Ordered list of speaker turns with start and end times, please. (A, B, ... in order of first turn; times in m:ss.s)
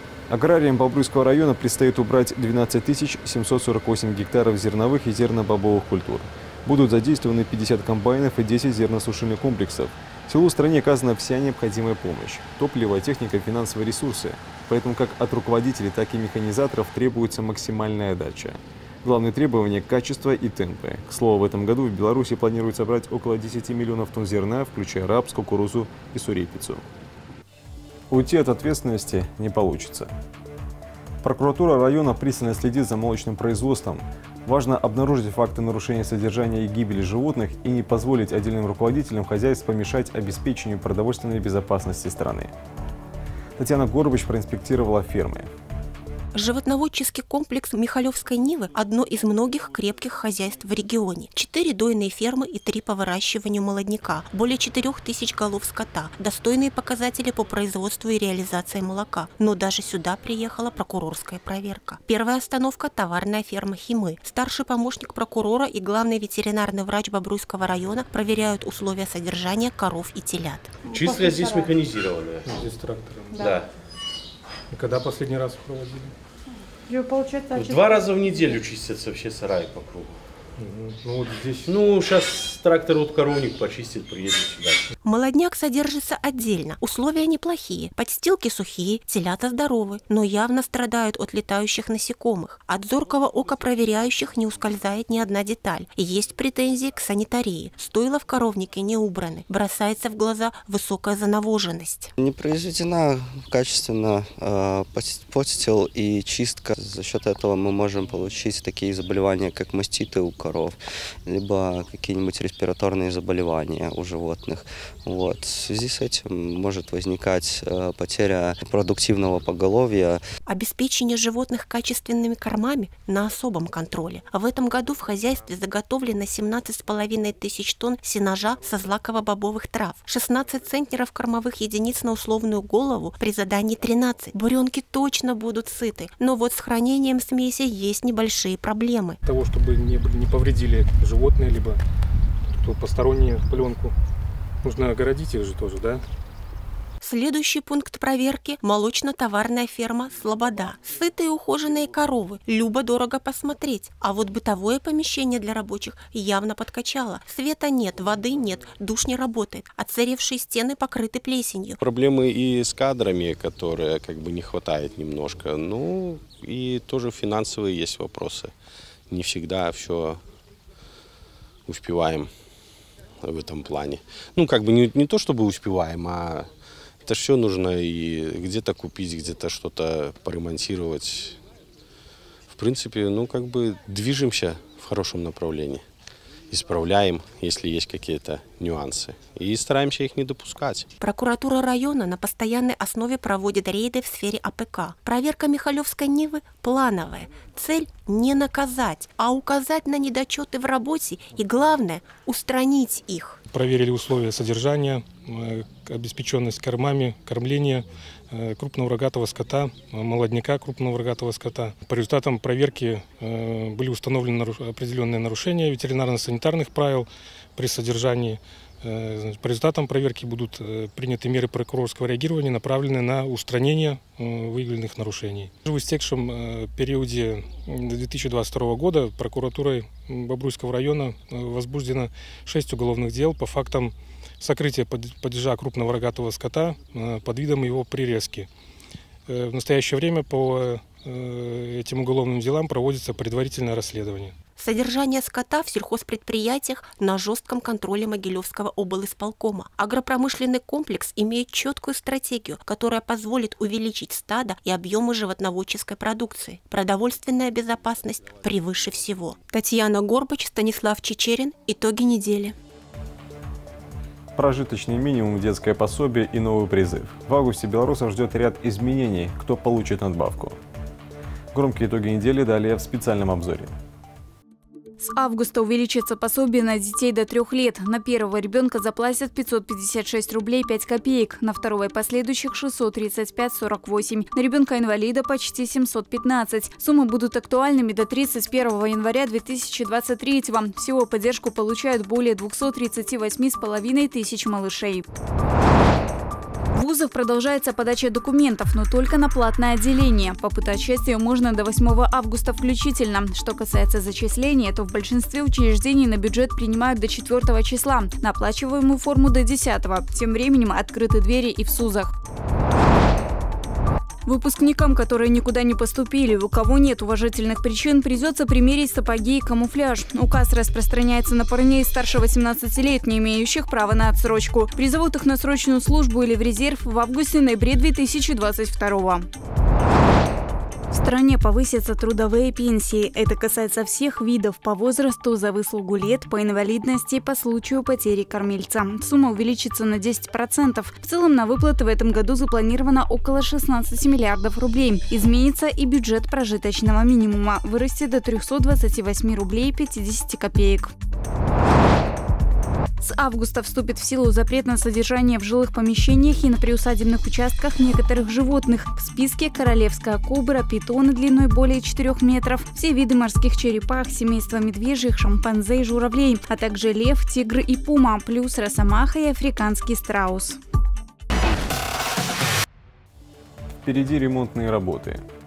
0:00.3-0:26.8 A
0:28.1-0:30.1 A
0:31.2-0:42.5 A
0:43.6-0:45.5 A
0:46.3-1:10.8 B
1:10.8-1:12.6 C
1:12.4-1:13.4 D
1:13.3-1:13.7 C
1:14.7-1:16.1 D
1:17.4-1:20.2 C
1:20.6-1:21.7 D
1:21.6-1:24.9 C
1:25.0-1:42.1 B
1:42.2-2:00.2 E
2:00.5-2:19.2 B
2:19.3-2:21.8 D
2:22.5-2:23.9 D
2:24.6-2:26.0 D
2:27.0-2:41.8 B
2:41.8-2:48.5 F
2:49.1-2:50.2 F
2:51.7-2:52.3 F
2:53.2-2:56.5 F
2:57.0-3:01.4 F
3:02.5-3:05.8 F
3:06.5-3:10.9 F
3:11.0-3:23.4 B
3:23.5-3:58.5 D
3:59.3-4:04.3 D
4:04.6-4:22.6 B
4:24.4-4:30.6 A
4:31.5-4:33.7 A
4:35.0-4:55.0 G
4:56.7-5:12.1 G
5:14.2-5:29.2 G
5:30.9-5:50.9 G
5:53.0-6:10.6 G
6:13.8-6:15.2 A